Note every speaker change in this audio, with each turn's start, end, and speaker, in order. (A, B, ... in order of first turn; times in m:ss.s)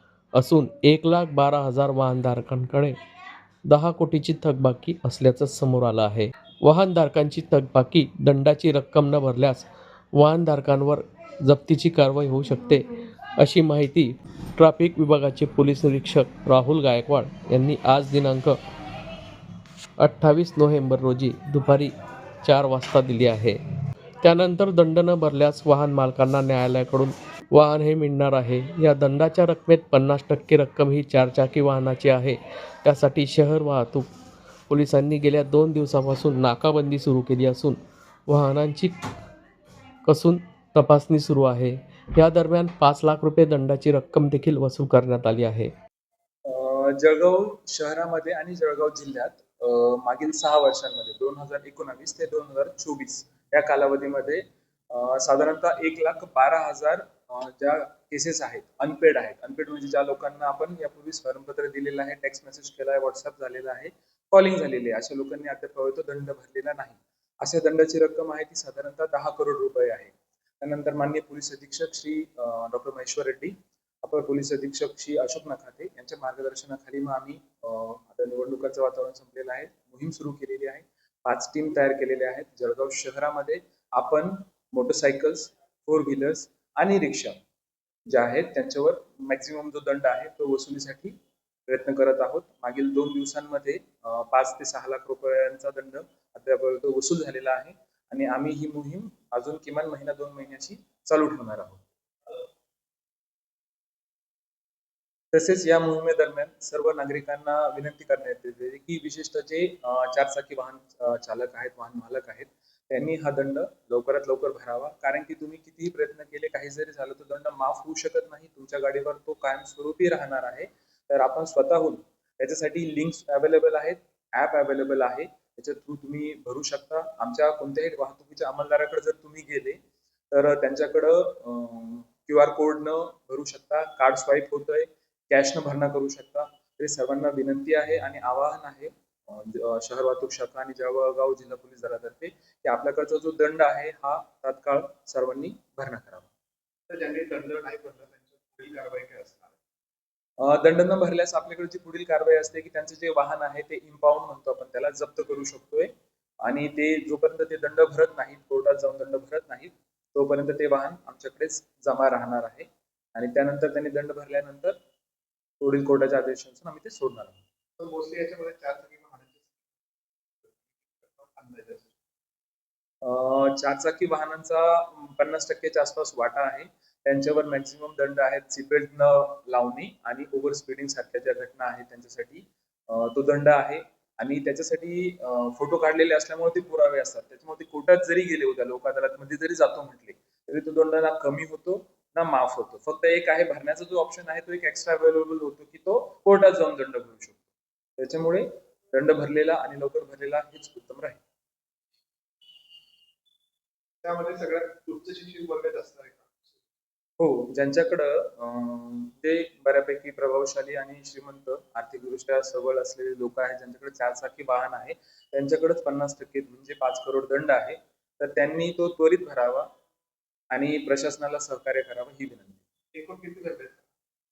0:00.4-0:03.0 A
0:03.7-0:18.6 A
0:20.0-0:21.9 A
0:22.4-0:23.6 A
0:24.2-0:34.1 A
0:34.7-0:38.9 A
0:40.1-0:45.7 A
0:46.5-1:27.4 B
1:28.1-1:31.2 B
1:31.7-1:41.8 B
1:45.3-2:09.8 B
2:10.3-2:26.3 B
2:26.9-2:29.6 C
2:30.4-2:35.9 B
2:36.4-2:44.8 B
2:45.6-2:47.4 B
2:47.8-2:49.7 C
2:50.4-2:52.0 C
2:53.0-3:17.4 B
3:18.0-3:21.2 B
3:24.0-3:26.6 C
3:27.2-3:39.7 B
3:40.5-3:42.6 B
3:42.9-3:43.9 C